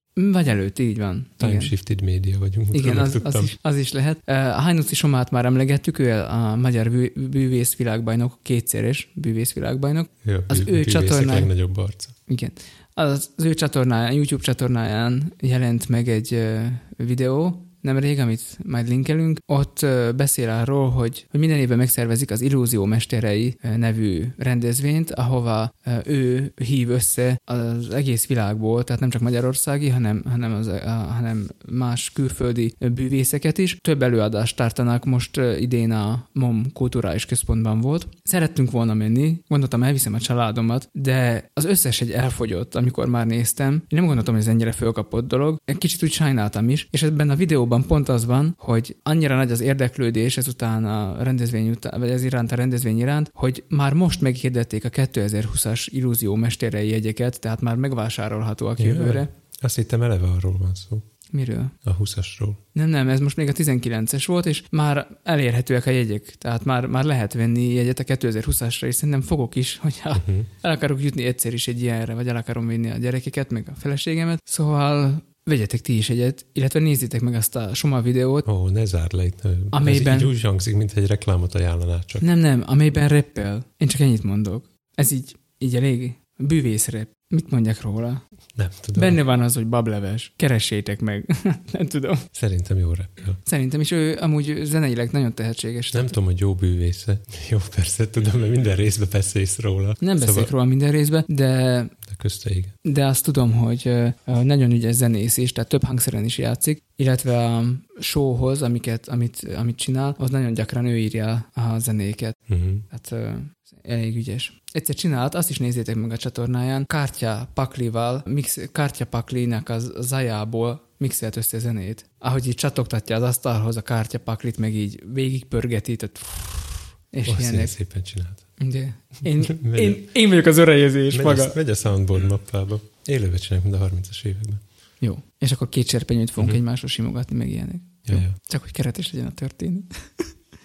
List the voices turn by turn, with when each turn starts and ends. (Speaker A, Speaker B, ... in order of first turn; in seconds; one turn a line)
Speaker A: 0.2-1.7
Speaker B: 1.4-3.5
Speaker A: 2.7-11.5
Speaker B: 10.2-12.2
Speaker A: 12.3-59.3
Speaker B: 58.8-61.1
Speaker A: 61.3-61.8
Speaker B: 61.8-62.6
Speaker A: 62.7-78.5
Speaker B: 70.2-70.5
Speaker B: 78.5-82.3
Speaker A: 79.7-80.3
Speaker A: 82.2-88.2
Speaker B: 88.6-89.2
Speaker A: 89.0-92.2
Speaker B: 92.3-93.4
Speaker A: 93.5-96.2
Speaker B: 95.9-100.5
Speaker A: 100.0-101.9
Speaker B: 102.0-102.8
Speaker A: 102.8-112.4
Speaker B: 112.5-112.9
Speaker A: 112.9-127.7
Speaker B: 127.3-128.5
Speaker A: 128.6-131.6
Speaker B: 129.4-130.1
Speaker B: 131.1-134.6
Speaker A: 135.0-140.3
Speaker B: 138.1-138.4